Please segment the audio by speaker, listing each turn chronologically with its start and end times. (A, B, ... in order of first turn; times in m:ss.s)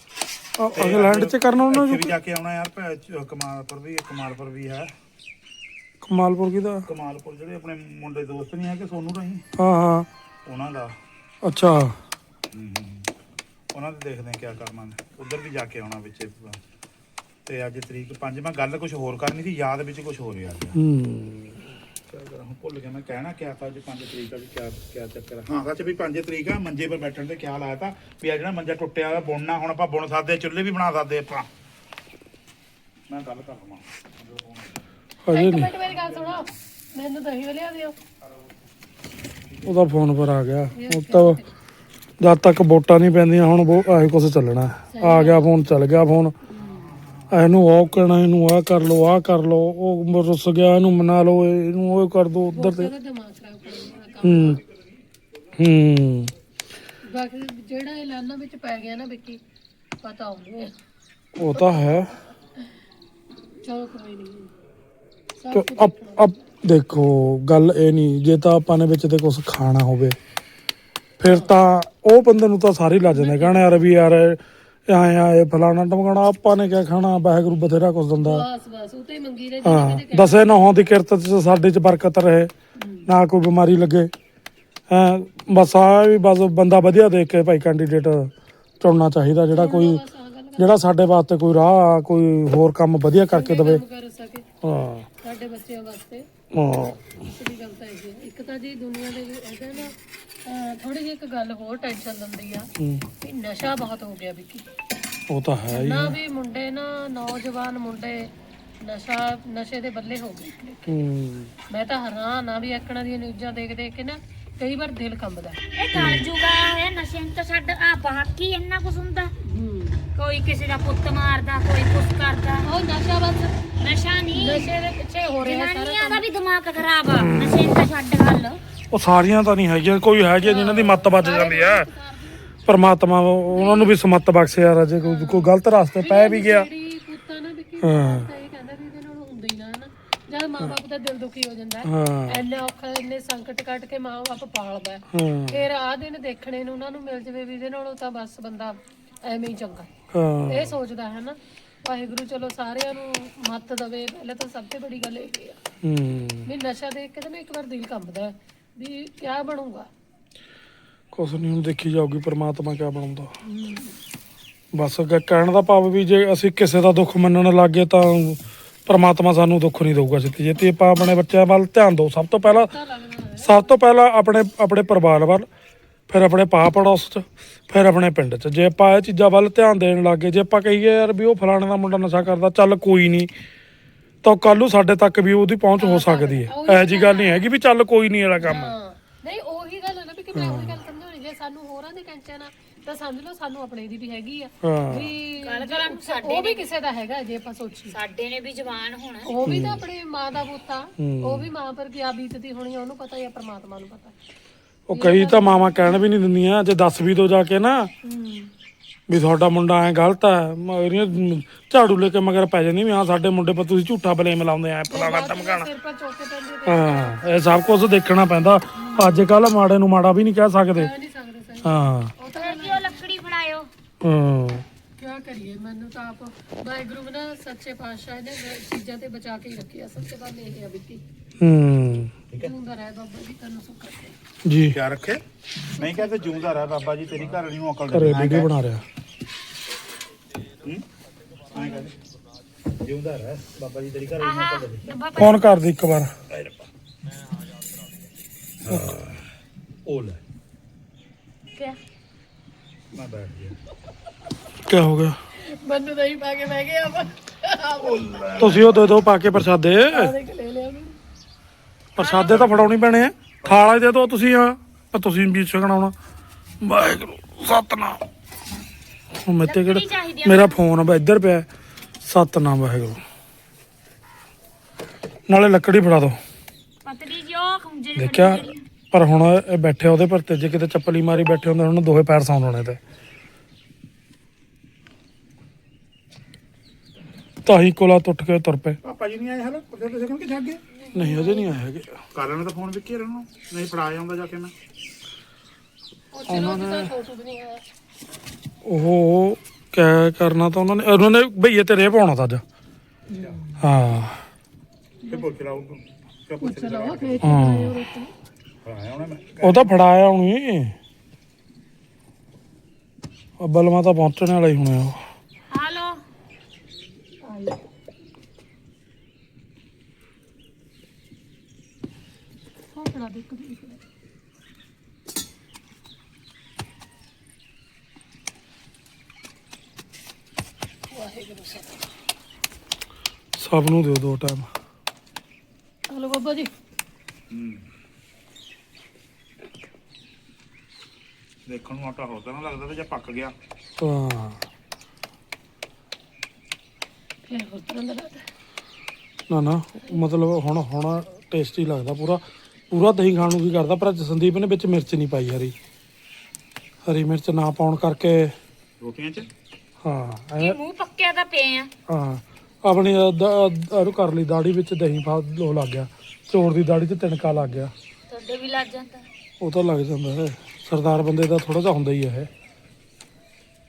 0:00.6-0:02.2 A
0:00.7-0:04.9 B
0:06.0-0:06.9 A
0:06.9-0:09.4 B
0:09.6-0:10.1 A
0:10.4-0:11.0 B
0:11.4-0:12.0 A
0:12.5-0:13.1 B
0:13.7-0:16.6 B
0:17.5-0:20.8 B
0:20.8-0:21.7 A
0:22.1-0:31.5 B
0:33.1-0:34.8 B
0:35.2-0:35.7 A
0:35.3-0:38.0 C
0:39.6-0:41.4 A
0:40.7-0:41.5 C
0:42.2-0:46.4 A
0:44.9-0:45.7 C
0:46.5-0:46.8 C
0:47.3-0:52.9 A
0:52.5-0:54.6 C
0:54.2-0:54.6 A
0:55.6-0:56.3 A
0:57.1-0:59.4 C
1:00.0-1:00.8 C
1:01.4-1:02.1 A
1:01.5-1:01.9 C
1:03.6-1:04.5 C
1:05.4-1:06.4 C
1:05.5-1:10.2 A
1:11.2-1:18.4 A
1:11.3-1:11.5 C
1:13.1-1:13.9 C
1:18.2-1:20.6 C
1:19.6-1:22.5 A
1:22.8-1:23.1 C
1:23.1-1:24.1 A
1:24.9-1:30.0 A
1:29.5-1:30.8 C
1:30.6-1:33.8 A
1:33.3-1:34.5 C
1:34.6-1:35.1 A
1:35.2-1:36.3 C
1:36.5-1:37.0 A
1:37.0-1:44.7 C
1:42.8-1:43.0 A
1:45.3-1:46.2 A
1:45.7-1:51.0 C
1:50.9-1:51.5 A
1:51.7-1:55.6 C
1:55.8-1:59.3 D
1:55.9-1:56.3 A
1:59.4-2:00.0 C
2:00.2-2:02.7 D
2:02.6-2:03.6 C
2:03.8-2:04.7 D
2:04.3-2:06.2 C
2:05.4-2:08.6 D
2:07.2-2:07.7 A
2:08.9-2:11.9 A
2:10.4-2:12.5 C
2:12.7-2:16.7 A
2:13.6-2:13.9 D
2:15.0-2:29.9 C
2:17.8-2:18.3 A
2:21.8-2:22.4 A
2:25.1-2:25.6 A
2:30.1-2:30.8 A
2:30.5-2:35.6 C
2:35.8-2:36.5 A
2:36.4-2:39.9 C
2:41.1-2:43.3 A
2:43.4-2:44.0 C
2:44.7-2:52.7 A
2:52.4-2:53.8 C
2:53.4-2:55.5 A
2:56.1-3:03.3 A
3:04.2-3:08.8 A
3:05.8-3:07.4 C
3:08.4-3:18.0 C
3:10.4-3:10.8 A
3:14.6-3:15.1 A
3:15.4-3:16.7 D
3:17.9-3:19.3 D
3:19.2-3:24.2 C
3:19.4-3:19.8 A
3:21.0-3:21.5 A
3:24.9-3:27.9 A
3:24.9-3:26.1 C
3:28.0-3:28.5 C
3:29.1-3:35.7 A
3:34.9-3:37.4 C
3:36.7-3:40.9 A
3:40.7-3:43.0 C
3:41.6-3:42.1 A
3:42.4-3:43.7 D
3:44.0-3:44.6 A
3:45.0-3:51.0 C
3:51.4-3:52.1 A
3:52.4-3:54.2 C
3:54.4-3:54.8 A
3:54.7-3:55.2 B
3:55.8-3:56.2 C
3:55.8-3:58.5 B
3:57.9-3:58.8 A
4:01.5-4:02.0 B
4:01.6-4:01.9 C
4:02.7-4:04.8 B
4:04.2-4:05.4 D
4:05.2-4:06.1 A
4:06.3-4:06.7 B
4:08.6-4:09.2 B
4:09.9-4:10.2 B
4:12.9-4:13.6 B
4:14.7-4:15.2 A
4:15.4-4:18.6 C
4:17.8-4:18.8 B
4:18.4-4:20.1 A
4:19.9-4:21.0 C
4:22.0-4:26.0 A
4:22.0-4:22.4 D
4:22.2-4:22.8 B
4:23.4-4:23.8 B
4:26.6-4:28.0 A
4:29.2-4:31.5 A
4:29.4-4:30.6 D
4:32.0-4:33.0 A
4:35.3-4:36.2 A
4:36.8-4:38.6 D
4:38.0-4:42.8 A
4:47.4-4:48.8 A
4:48.8-4:50.6 B
4:50.8-4:51.6 C
4:50.9-4:52.0 A
4:52.1-4:54.5 B
4:56.1-4:57.6 C
4:56.3-4:56.9 A
4:58.6-5:02.4 A
5:03.2-5:03.5 B
5:03.6-5:04.2 A
5:05.1-5:07.4 B
5:06.4-5:08.1 C
5:07.2-5:07.8 A
5:08.6-5:09.7 B
5:09.4-5:10.8 A
5:13.4-5:15.0 A
5:15.5-5:16.0 D
5:17.2-5:17.6 C
5:22.7-5:23.8 C
5:30.9-5:31.8 C
5:33.4-5:34.5 A
5:35.9-5:36.5 C
5:37.3-5:37.6 B
5:41.5-5:43.3 B
5:43.8-5:44.4 A
5:47.3-5:48.2 C
5:49.3-5:55.6 A
5:56.8-5:58.4 A
5:58.8-5:59.3 B
5:59.8-6:00.6 A
6:00.4-6:01.7 D
6:01.9-6:07.7 A
6:08.1-6:09.1 D
6:09.4-6:12.3 A